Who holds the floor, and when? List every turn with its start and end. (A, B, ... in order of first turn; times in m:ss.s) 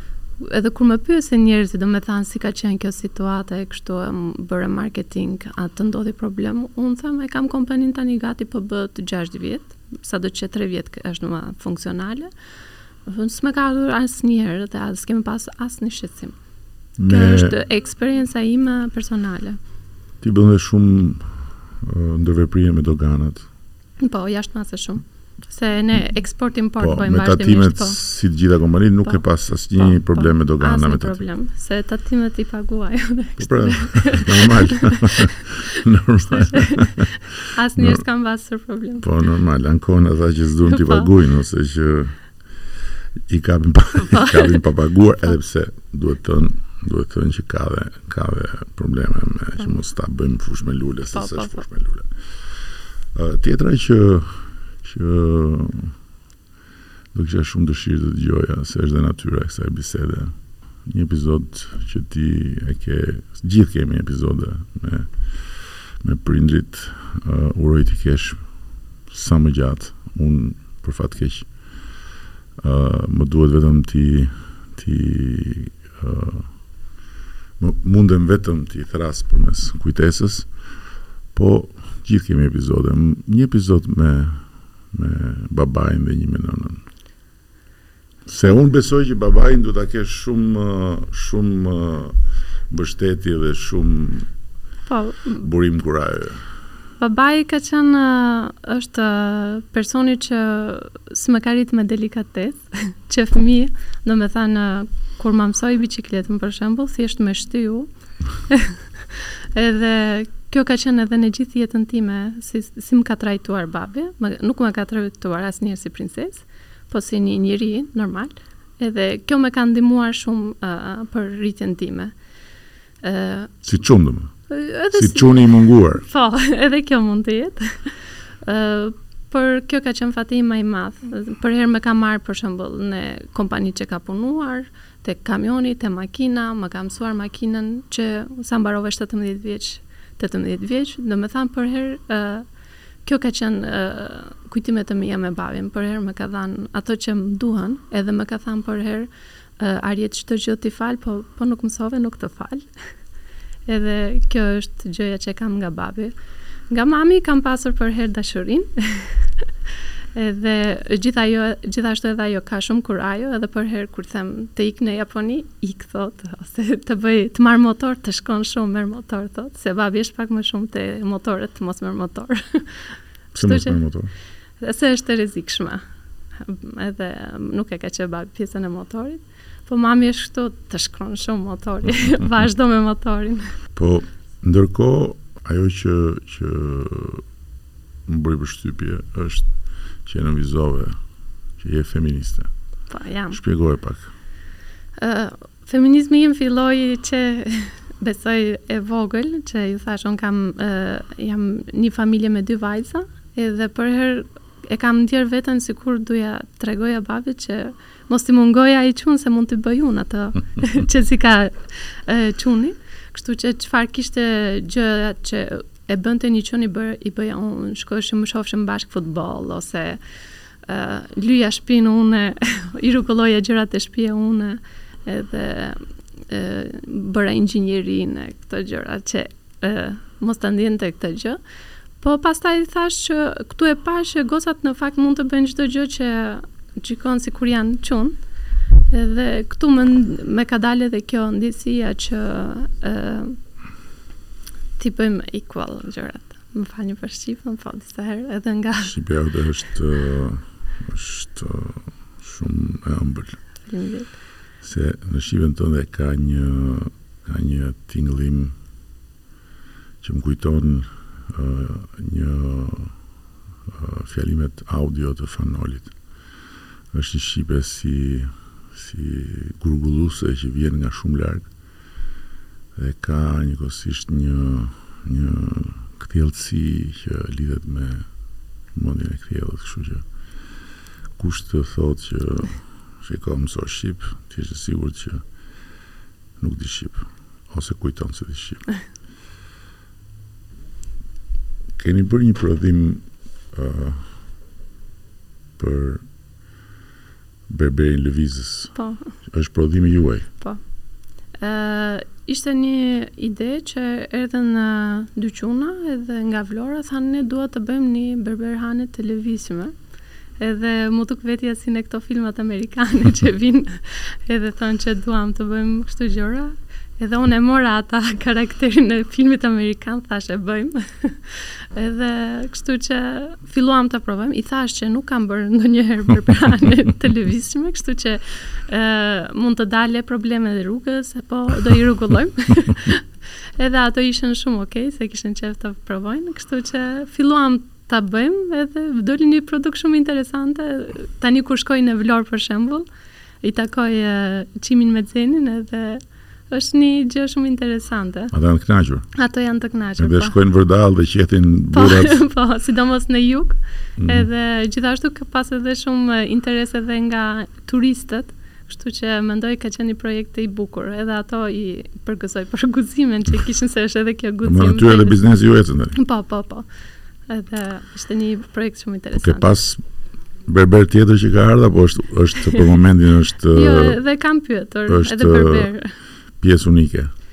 0:00.4-0:12.3 A
0:13.0-0:16.4 A
0:17.0-0:17.6 B
0:17.1-0:19.6 A
0:20.2-0:23.5 B
0:24.0-0:28.0 A
0:26.8-0:31.2 B
0:29.8-0:35.2 A
0:33.4-0:37.2 B
0:36.2-0:39.1 A
0:37.7-0:38.0 B
0:39.0-0:42.2 B
0:40.7-0:41.1 A
0:43.3-0:52.6 B
0:44.1-0:44.5 A
0:51.1-0:51.6 A
0:53.1-0:56.0 B
0:57.1-1:08.5 B
1:09.1-1:11.5 B
1:12.6-1:16.5 B
1:17.6-1:20.5 B
1:21.3-1:26.8 B
1:28.3-1:32.2 B
1:32.7-1:34.3 B
1:34.9-1:35.4 A
1:35.4-1:36.4 B
1:37.0-1:47.9 A
1:48.5-2:02.1 A
2:03.0-2:03.5 A
2:03.6-2:04.3 B
2:04.5-2:22.4 A
2:04.9-2:06.0 B
2:23.0-2:32.7 A
2:33.6-2:36.1 A
2:36.7-2:39.5 A
2:40.1-2:53.8 A
2:53.3-2:54.1 B
2:54.6-2:55.8 A
2:56.4-3:03.5 A
3:03.7-3:07.2 B
3:08.0-3:09.5 B
3:10.0-3:11.0 B
3:11.6-3:12.5 B
3:12.9-3:13.4 A
3:13.3-3:14.1 B
3:15.0-3:40.0 A
3:40.6-3:51.4 A
3:52.0-3:58.2 A
3:58.9-4:03.4 A
4:04.8-4:08.9 A
4:08.8-4:13.4 B
4:13.7-4:14.2 A
4:14.6-4:18.5 B
4:20.0-4:23.0 B
4:23.7-4:25.9 B
4:26.9-4:31.5 B
4:32.7-4:38.1 B
4:38.7-4:40.0 B
4:41.2-4:45.2 B
4:46.4-4:48.6 B
4:51.8-4:54.1 B
4:55.6-4:56.0 B
4:57.5-5:00.3 B
4:58.7-4:59.1 A
5:01.4-5:09.7 A
5:10.4-5:42.8 A
5:43.4-5:48.3 A
5:48.3-5:49.1 B
5:49.1-5:50.3 A
5:50.0-5:52.2 B
5:51.7-6:05.2 A
5:54.0-5:54.3 B
6:04.4-6:06.0 B
6:05.9-6:06.6 A
6:07.3-6:09.5 A
6:09.2-6:09.8 B
6:10.4-6:14.0 B
6:13.5-6:16.0 A
6:14.9-6:15.7 B
6:16.4-6:17.1 B